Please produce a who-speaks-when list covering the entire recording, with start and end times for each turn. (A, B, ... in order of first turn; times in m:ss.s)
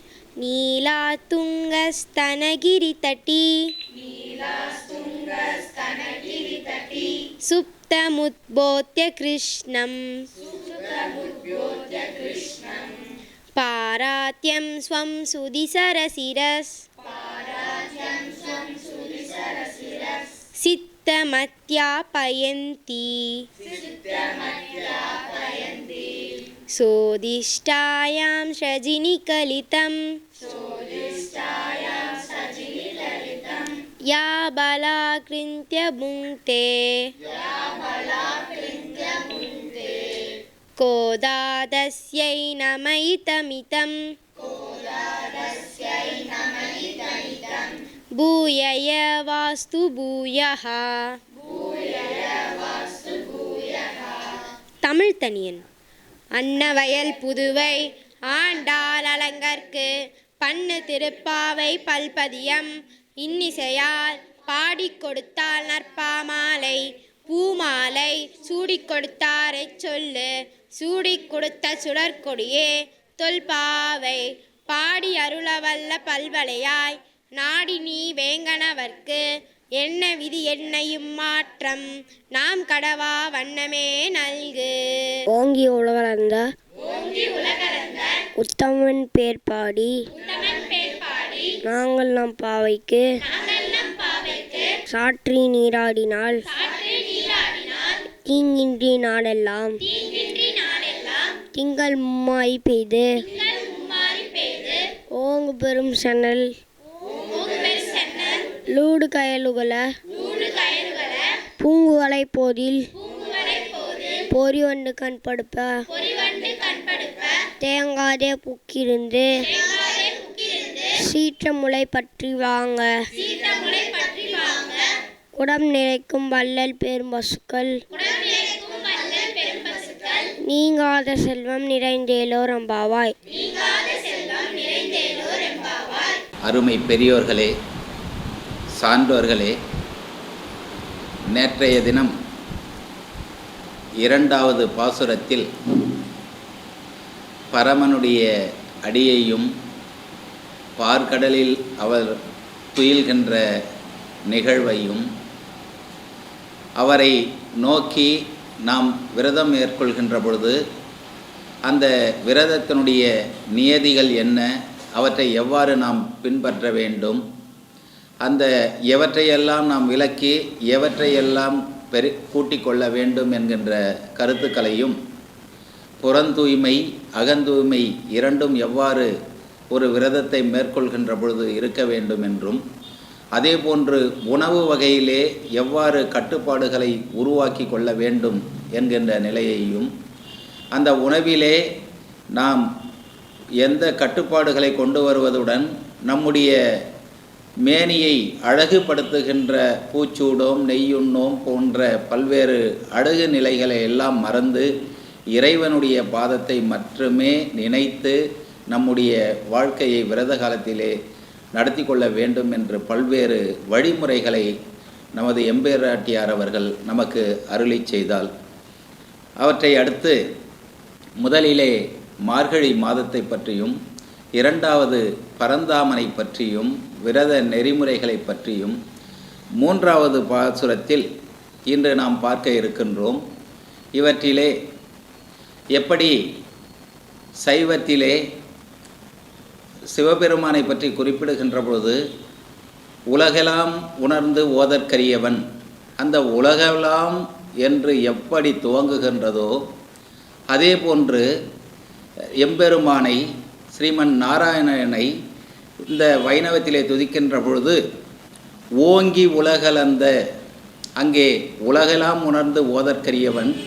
0:00.4-0:12.9 A
0:13.5-0:26.2 A
0:26.7-0:40.2 A
0:40.8-0:54.2 A
0:54.8-0:55.6 A
0:56.4-1:19.2 A
1:19.8-1:25.2 A
1:25.3-1:26.5 B
1:26.8-1:28.2 A
1:28.4-1:30.0 B
1:30.2-1:31.6 A
1:31.6-1:33.1 B
1:33.2-1:34.8 A
1:34.9-1:36.5 B
1:36.5-1:38.0 A
1:38.3-1:39.8 B
1:39.8-1:41.4 A
1:41.5-1:43.2 B
1:43.2-1:44.9 A
1:45.1-1:46.6 B
1:47.2-1:48.5 A
1:48.7-1:49.9 B
1:50.1-1:51.4 A
1:51.6-1:52.9 B
1:53.0-1:54.3 A
1:54.3-1:55.8 B
1:55.9-1:57.5 A
1:57.6-1:59.4 B
1:59.4-2:01.0 A
2:01.0-2:03.0 B
2:03.1-2:04.9 A
2:05.3-2:07.8 B
2:07.9-2:10.3 A
2:10.4-2:13.1 B
2:13.3-2:16.2 A
2:16.4-2:17.5 C
2:18.8-2:19.6 C
2:21.3-2:22.1 C
2:24.0-2:25.5 C
2:27.5-2:28.2 C
2:28.8-2:29.5 C
2:30.8-2:32.2 C
2:32.7-2:33.4 C
2:34.3-2:35.0 C
2:36.8-2:40.6 C
2:41.7-2:47.2 C
2:48.2-2:55.0 C
2:56.0-2:59.1 C
2:59.7-3:02.6 C
3:03.3-3:09.9 C
3:10.7-3:11.6 C
3:12.4-3:12.6 C
3:13.6-3:16.5 C
3:17.6-3:24.7 C
3:25.3-3:28.2 C
3:28.7-3:30.9 C
3:31.5-3:34.5 C
3:35.2-3:38.3 C
3:39.4-3:40.2 C
3:41.2-3:41.8 C
3:42.3-3:43.8 C
3:44.4-3:48.8 C
3:49.6-3:51.0 C
3:51.7-3:53.2 C
3:53.9-3:54.5 C
3:55.8-3:56.2 C
3:57.4-3:58.2 C
3:59.9-4:02.0 C
4:03.1-4:05.4 C
4:06.0-4:09.6 C
4:10.5-4:11.3 C
4:12.4-4:15.1 C
4:15.9-4:17.8 C
4:18.8-4:20.1 C
4:21.0-4:23.6 C